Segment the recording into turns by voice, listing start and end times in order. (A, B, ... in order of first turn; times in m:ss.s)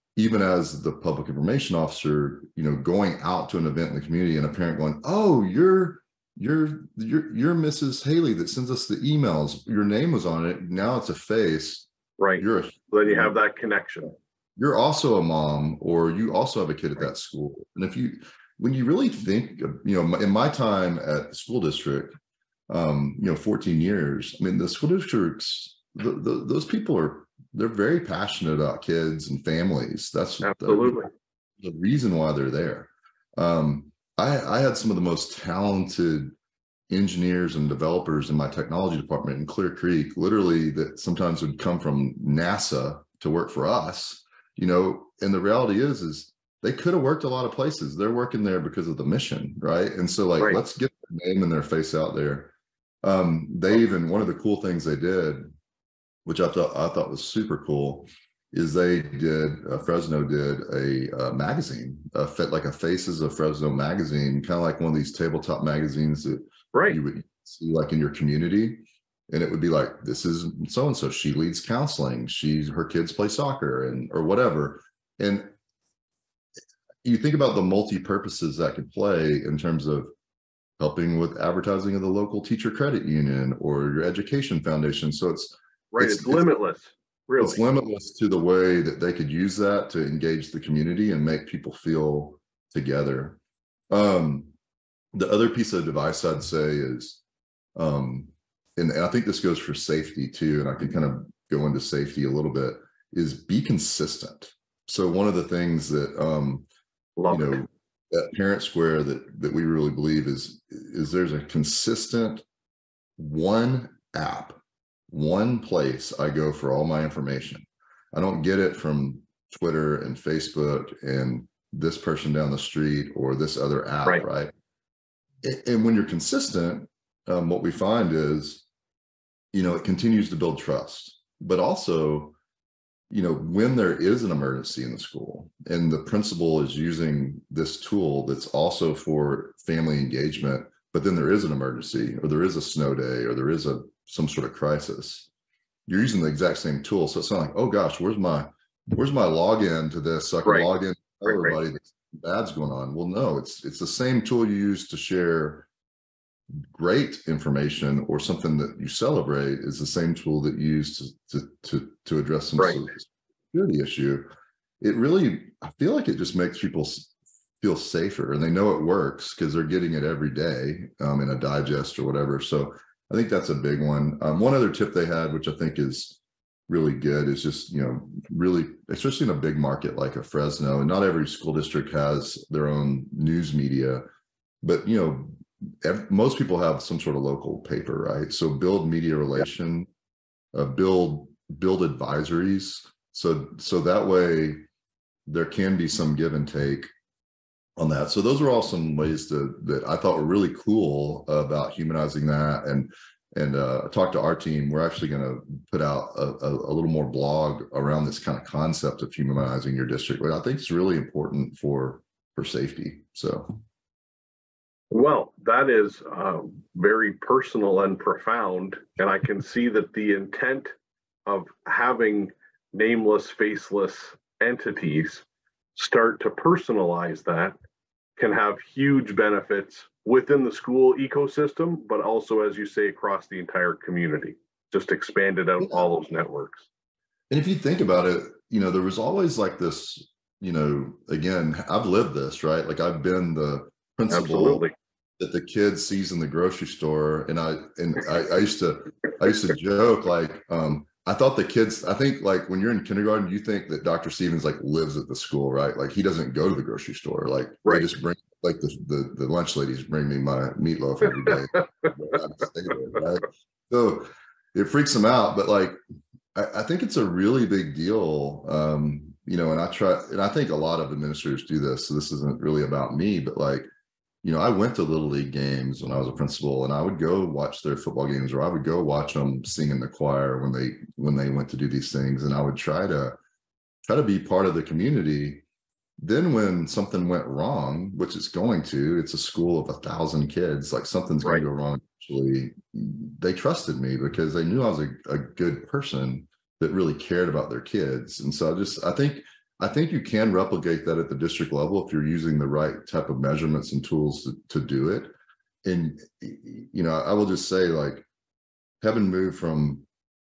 0:00.2-0:11.9 A
0:12.2-0:14.1 B
0:12.4-0:13.4 A
0:14.6-0:22.1 A
0:22.7-0:31.0 A
0:30.4-0:31.1 B
0:31.6-0:36.3 A
0:36.9-0:52.5 A
0:53.0-0:55.5 A
0:56.2-1:15.5 A
1:06.7-1:07.0 B
1:17.0-1:20.1 A
1:20.8-1:26.5 A
1:25.9-1:27.6 B
1:27.4-1:33.4 A
1:33.9-1:34.5 A
1:35.1-1:37.2 A
1:37.8-1:46.7 A
1:47.2-1:47.6 B
1:47.3-1:52.4 A
1:53.2-1:54.6 A
1:55.1-2:04.5 A
2:05.4-2:08.6 A
2:09.5-2:12.3 A
2:13.1-2:25.3 A
2:25.9-2:35.7 A
2:31.3-2:31.6 B
2:36.7-2:44.2 A
2:44.8-3:04.0 A
3:04.6-3:09.9 A
3:10.5-3:14.6 A
3:15.3-3:16.9 A
3:17.8-3:33.6 A
3:34.9-3:40.7 B
3:41.2-3:47.5 B
3:48.2-3:56.7 B
3:57.3-4:04.6 A
4:04.1-4:04.7 B
4:05.2-4:25.8 A
4:26.3-4:33.7 A
4:34.2-4:43.2 A
4:43.8-4:45.4 A
4:46.0-5:05.1 A
5:05.6-5:08.1 A
5:08.8-5:09.8 A